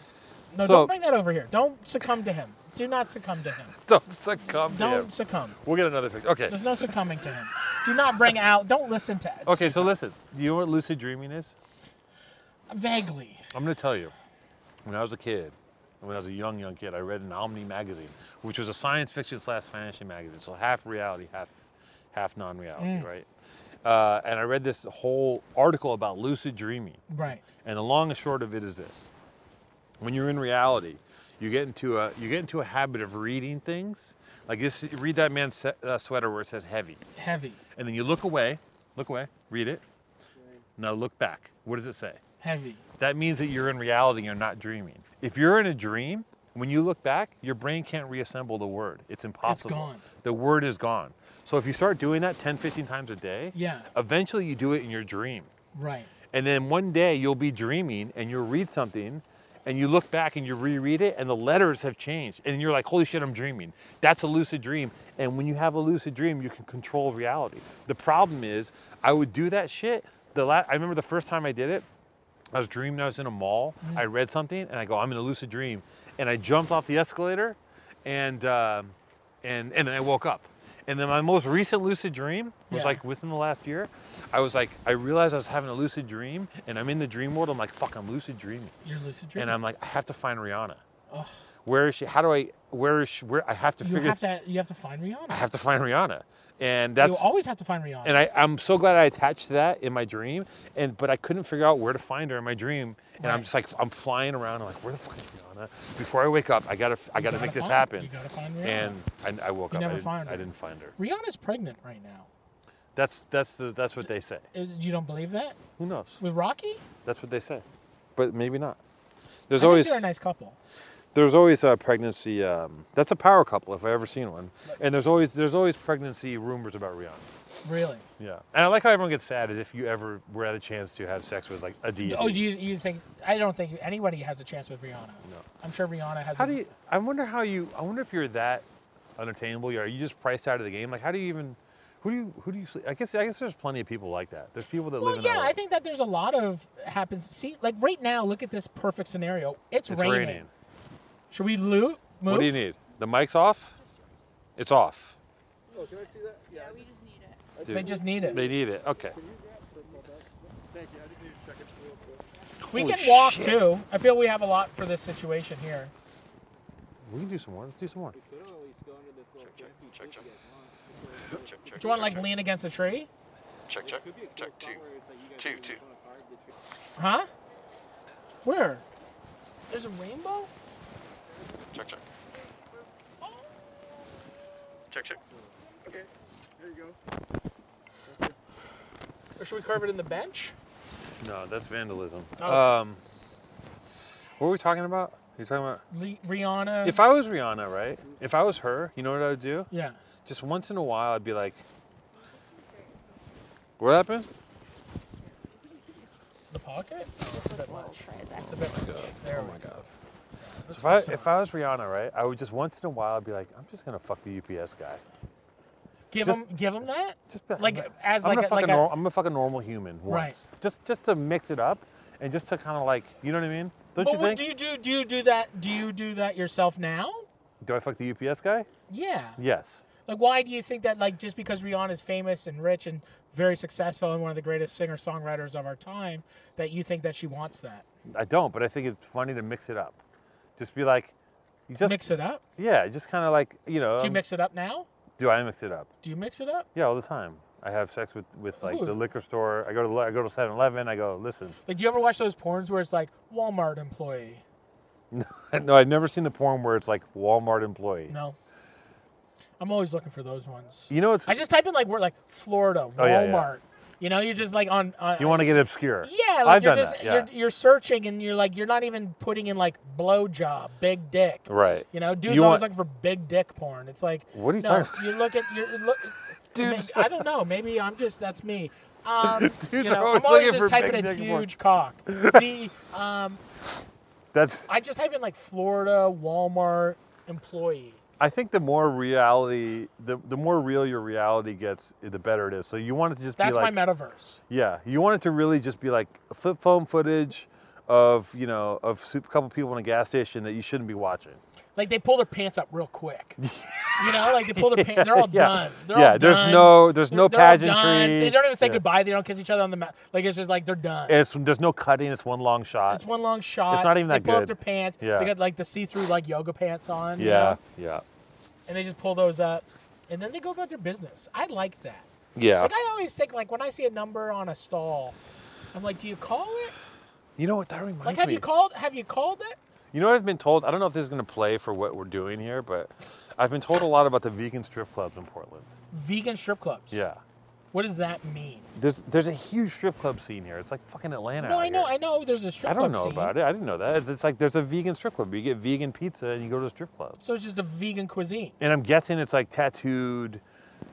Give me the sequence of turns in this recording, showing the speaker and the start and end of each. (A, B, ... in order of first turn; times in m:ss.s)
0:00.5-0:03.7 A
0:00.6-0:00.9 B
0:03.9-0:05.1 B
0:04.7-0:05.6 A
0:05.6-0:06.8 B
0:06.5-0:09.9 A
0:09.5-0:11.6 B
0:12.7-0:13.5 A
0:13.5-0:14.1 B
0:14.8-0:21.6 B
0:22.1-0:23.3 B
0:22.8-0:23.1 A
0:23.8-0:27.1 B
0:27.1-0:27.4 A
0:27.6-0:29.1 B
0:30.0-0:37.0 B
0:37.2-0:37.6 A
0:37.8-0:39.8 B
0:40.4-0:40.6 C
0:40.8-0:42.2 B
0:42.4-0:42.8 A
0:43.0-0:55.5 B
0:49.4-0:50.0 A
0:53.5-0:53.9 A
0:55.8-0:56.1 A
0:56.3-1:11.8 B
1:12.5-1:28.7 B
1:22.7-1:23.0 A
1:28.8-1:29.6 A
1:29.4-1:30.8 B
1:31.1-1:31.4 A
1:31.6-1:34.2 B
1:33.8-1:35.4 A
1:35.3-1:37.3 B
1:37.0-1:38.2 A
1:38.0-1:48.1 B
1:43.2-1:43.5 A
1:47.2-1:49.0 A
1:48.6-1:51.0 B
1:49.7-1:50.4 A
1:51.0-1:52.3 A
1:53.0-1:54.4 B
1:54.5-1:55.6 A
1:55.8-1:56.2 B
1:56.2-1:56.8 A
1:57.0-1:57.6 B
1:58.2-1:58.8 B
1:59.5-2:00.0 B
1:59.6-2:00.6 A
2:01.2-2:07.2 B
2:07.6-2:08.0 A
2:08.2-2:12.4 B
2:12.0-2:16.6 A
2:16.4-2:18.6 B
2:19.2-2:25.6 B
2:25.0-2:30.4 A
2:29.9-2:30.5 B
2:31.3-2:32.6 A
2:32.3-2:33.8 B
2:34.6-2:35.2 B
2:35.7-2:37.4 D
2:35.7-2:36.9 C
2:37.6-2:42.3 C
2:37.6-2:39.2 B
2:37.7-2:38.5 A
2:42.6-2:45.9 A
2:42.7-2:43.7 B
2:47.0-2:48.2 B
2:48.1-2:52.3 C
2:51.8-2:53.1 A
2:53.8-2:56.6 C
2:57.0-2:57.3 A
2:58.4-2:58.8 A
2:59.7-3:00.5 A
3:01.3-3:01.9 C
3:03.2-3:03.5 A
3:05.2-3:07.0 C
3:08.1-3:08.4 C
3:09.4-3:10.6 A
3:11.2-3:13.0 B
3:12.4-3:12.7 A
3:14.4-3:15.8 B
3:15.9-3:17.0 A
3:16.8-3:19.7 B
3:19.7-3:20.0 A
3:20.3-3:21.6 B
3:22.2-3:23.1 D
3:23.8-3:24.3 B
3:26.5-3:29.6 A
3:27.3-3:28.6 D
3:28.5-3:29.9 B
3:30.4-3:31.3 A
3:30.7-3:35.0 B
3:36.1-3:38.9 A
3:37.3-3:44.4 B
3:40.1-3:40.4 A
3:44.0-3:47.3 A
3:47.6-3:48.7 B
3:48.9-3:49.4 A
3:49.4-3:49.9 B
3:50.1-3:57.9 A
3:58.1-4:00.0 B
4:00.6-4:01.1 B
4:01.7-4:02.0 B
4:01.8-4:02.4 A
4:02.6-4:04.2 B
4:04.0-4:04.9 A
4:05.2-4:05.9 B
4:06.0-4:06.7 A
4:06.8-4:11.6 B
4:08.6-4:09.0 A
4:11.7-4:14.4 A
4:15.1-4:18.1 B
4:18.1-4:18.4 A
4:19.6-4:43.4 A
4:20.9-4:21.4 B
4:23.0-4:23.5 B
4:25.2-4:27.3 B
4:31.5-4:32.7 B
4:34.3-4:35.1 B
4:36.5-4:37.2 B
4:39.2-4:41.5 B
4:42.1-4:42.5 B
4:44.3-4:44.7 B
4:44.7-4:48.0 A
4:48.2-4:53.8 B
4:53.4-4:54.4 A
4:54.5-5:01.4 B
5:01.8-5:03.4 A
5:03.4-5:08.8 B
5:04.0-5:11.2 A
5:11.1-5:13.0 B
5:12.9-5:17.6 A
5:13.7-5:15.3 B
5:17.2-5:18.0 B
5:18.7-5:22.1 A
5:22.4-5:22.7 B
5:22.6-5:25.2 A
5:25.7-5:26.7 A
5:27.4-5:28.5 B
5:28.0-5:29.6 A
5:29.9-5:35.7 B
5:35.9-5:37.0 A
5:36.9-5:37.2 B
5:37.7-5:38.7 A
5:38.8-5:41.9 B
5:41.4-5:43.3 A
5:42.6-5:47.2 B
5:47.2-5:48.6 A
5:48.6-5:50.4 B